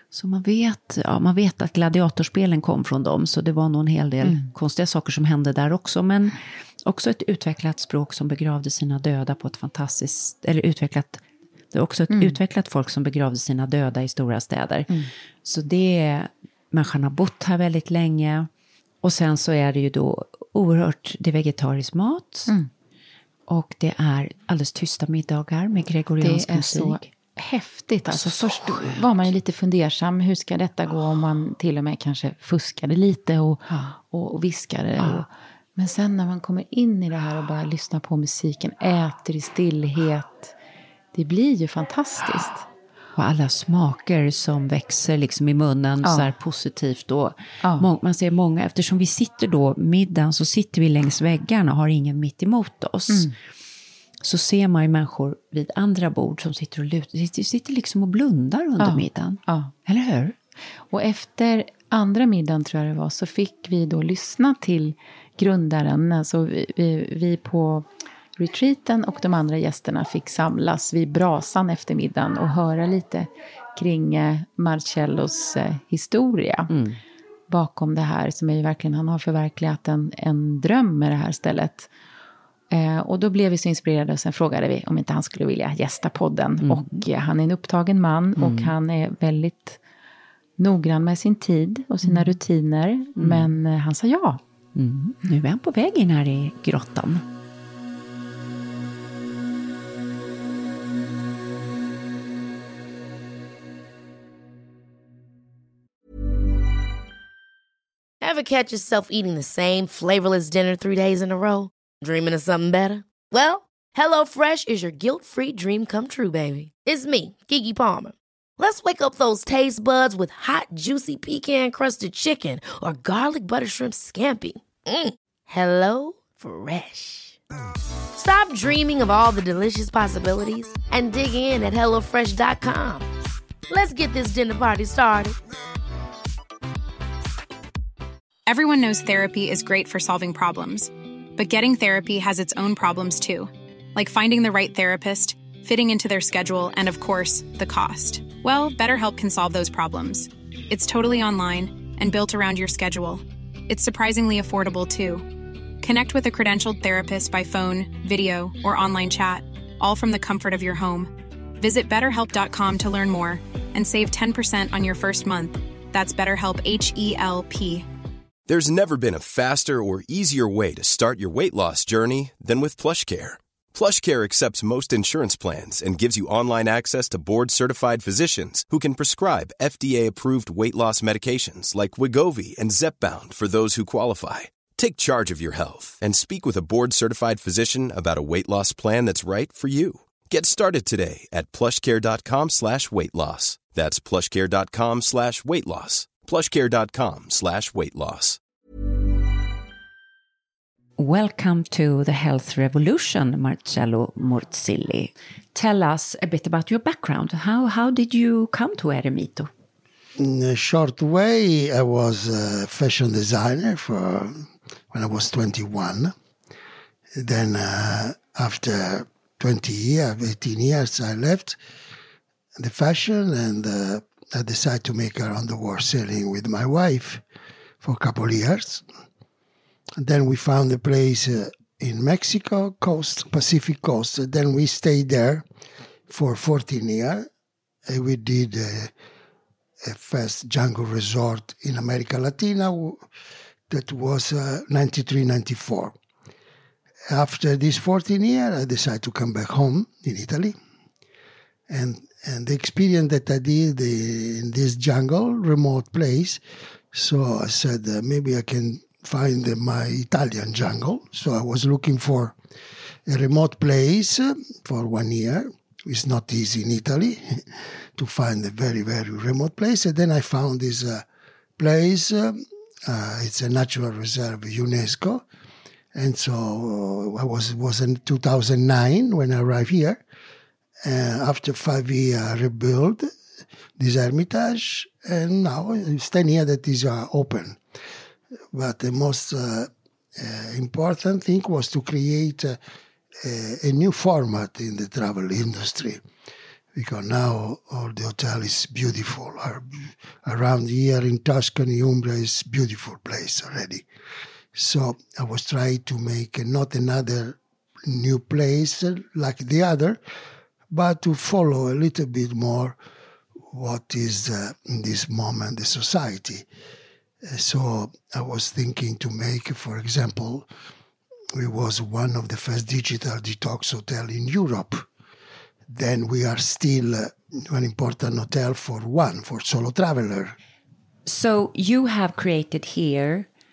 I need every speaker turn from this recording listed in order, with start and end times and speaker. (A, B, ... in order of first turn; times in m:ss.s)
0:00.1-0:14.9 A
0:04.2-0:04.5 B
0:12.1-0:12.4 B
0:15.4-0:18.5 A
0:19.0-0:22.5 A
0:23.5-0:27.1 A
0:26.2-0:40.5 B
0:28.1-0:29.3 A
0:35.0-0:35.2 A
0:41.1-0:42.6 B
0:43.2-0:53.3 A
0:46.0-0:46.3 B
0:54.2-1:00.3 A
0:58.8-0:59.7 B
1:00.9-1:07.8 B
1:08.4-1:16.7 B
1:16.7-1:17.0 A
1:17.5-1:21.9 B
1:22.7-1:29.8 B
1:26.6-1:27.0 A
1:28.4-1:28.7 A
1:30.6-1:34.4 B
1:32.0-1:32.4 A
1:33.2-1:33.5 A
1:34.8-1:37.2 A
1:48.2-2:07.4 C
2:08.1-2:13.1 C
2:13.7-2:15.4 C
2:18.4-2:35.2 D
2:35.8-2:47.8 D
2:48.5-3:18.4 E
3:21.0-3:29.5 A
3:30.2-3:36.1 F
3:37.2-3:41.6 F
3:42.6-3:47.2 F
3:47.8-3:48.8 F
3:50.0-3:55.4 F
3:56.1-3:57.3 F
3:57.8-3:58.9 F
3:59.8-4:03.0 F
4:03.7-4:05.9 F
4:07.1-4:10.6 F
4:11.7-4:16.4 F
4:16.9-4:22.4 F
4:23.0-4:31.0 F
4:31.6-4:35.2 F
4:35.9-4:40.0 F
4:40.8-4:43.1 F
4:43.8-4:47.6 F
4:48.5-4:52.6 F
4:53.2-4:56.0 F
4:56.7-5:03.8 F
5:04.5-5:10.0 F
5:10.7-5:12.8 F
5:13.5-5:16.5 F
5:17.2-5:20.5 F
5:21.3-5:24.8 F
5:25.7-5:30.4 F
5:31.0-5:33.3 A